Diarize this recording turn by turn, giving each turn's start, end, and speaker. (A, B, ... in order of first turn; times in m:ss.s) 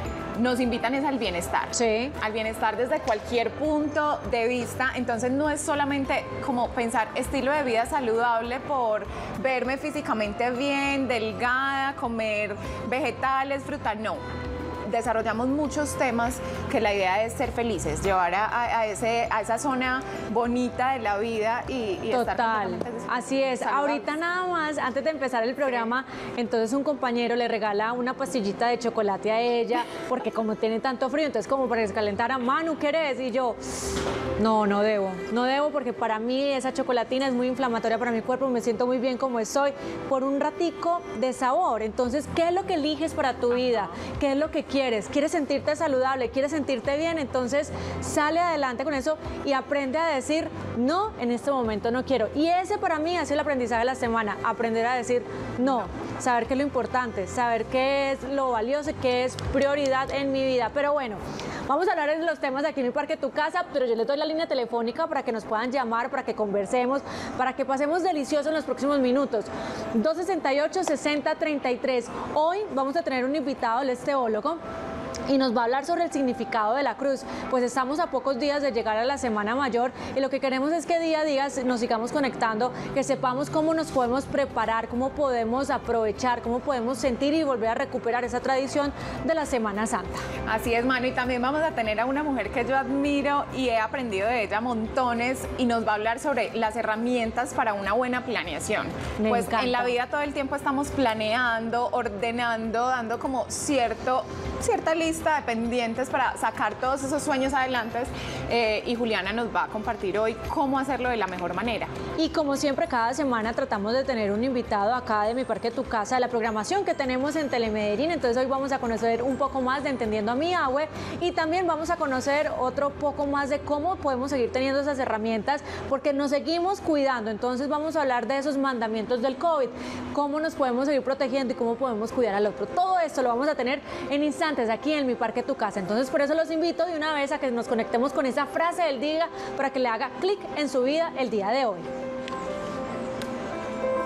0:00.4-0:14.2 A
0:01.7-0:02.1 B
0:14.8-0:24.1 A
0:22.1-0:33.6 B
0:34.4-1:14.6 B
1:15.3-1:30.2 B
1:30.4-1:51.9 A
1:39.2-1:39.9 B
1:52.2-2:21.9 B